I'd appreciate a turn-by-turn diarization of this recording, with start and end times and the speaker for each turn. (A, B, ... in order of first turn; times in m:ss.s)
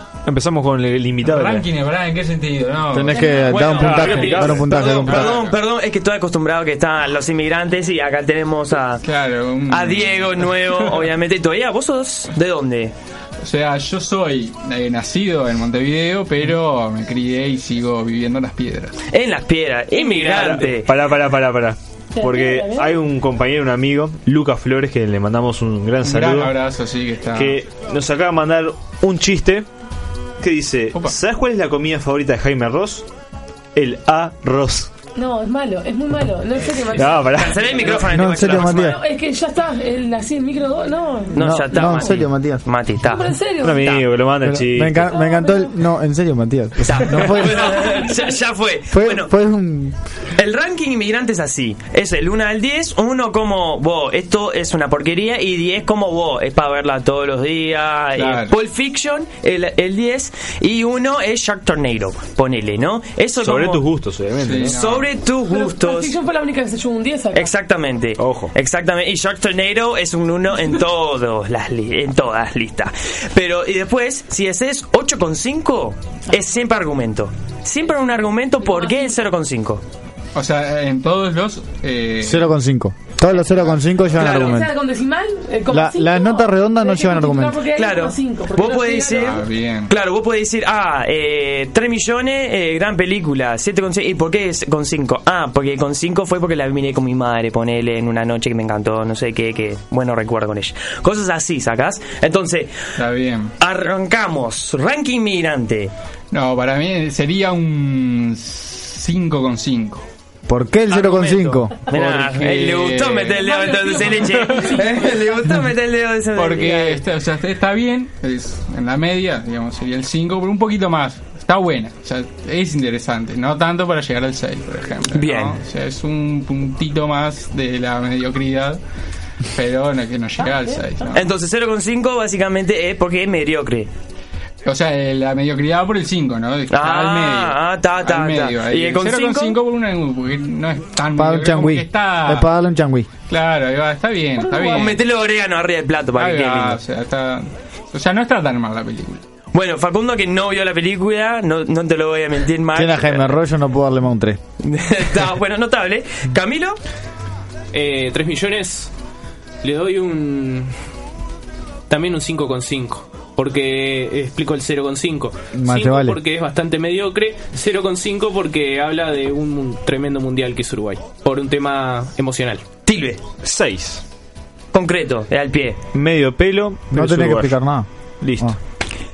0:00.2-0:01.7 A
0:01.2-0:05.6 B
0:02.9-0:05.4 C
0:03.4-0:09.0 D
0:03.7-0:04.6 E
0:04.2-0:04.6 A
0:09.0-0:11.1 B
0:09.7-0:12.9 D
0:13.4-0:18.9 B
0:19.1-0:20.9 D
0:19.9-0:20.7 E
0:20.4-0:26.6 A
0:22.2-0:23.0 F
0:26.0-0:27.6 B
0:27.3-0:29.7 A
0:30.4-0:33.1 A
0:33.8-0:34.9 A
0:35.2-0:37.4 F
0:36.9-0:37.9 A
0:37.4-0:39.0 D
0:37.9-0:39.0 C
0:38.6-0:41.4 F
0:41.4-0:44.1 D
0:41.4-0:42.6 C
0:43.1-0:43.8 F
0:43.6-0:45.1 A
0:44.4-0:47.7 C
0:45.1-0:45.8 F
0:46.8-0:49.3 D
0:48.9-0:50.0 C
0:50.4-1:03.8 D
0:58.2-0:58.5 B
1:03.4-1:04.8 A
1:04.4-1:05.1 B
1:04.7-1:06.1 D
1:05.5-1:07.5 F
1:07.3-1:19.8 D
1:08.2-1:08.5 A
1:20.4-1:22.5 B
1:22.2-1:24.7 C
1:24.2-1:24.7 D
1:24.2-1:29.2 F
1:25.7-1:27.6 C
1:27.7-1:42.7 D
1:29.1-1:29.9 B
1:43.0-1:43.5 B
1:43.6-1:45.9 D
1:46.3-1:50.0 B
1:50.5-1:51.8 C
1:50.9-1:57.0 D
1:51.9-1:54.6 B
1:53.4-1:55.1 F
1:56.4-2:08.8 B
2:05.1-2:05.6 D
2:09.5-2:11.3 B
2:10.5-2:11.0 F
2:11.1-2:13.9 D
2:14.6-2:22.5 B
2:16.7-2:19.6 D
2:21.2-2:23.1 C
2:23.3-2:25.0 B
2:24.4-2:24.7 F
2:24.6-2:26.8 D
2:26.2-2:29.2 B
2:29.5-2:33.4 D
2:32.7-2:34.4 C
2:34.6-2:36.8 D
2:37.7-2:38.9 E
2:39.6-2:40.7 E
2:41.9-2:52.6 E
2:45.5-2:46.2 C
2:52.9-2:53.2 D
2:53.4-2:54.0 A
2:54.7-2:55.8 D
2:55.9-2:57.6 A
2:56.9-2:57.9 C
2:58.2-2:58.6 A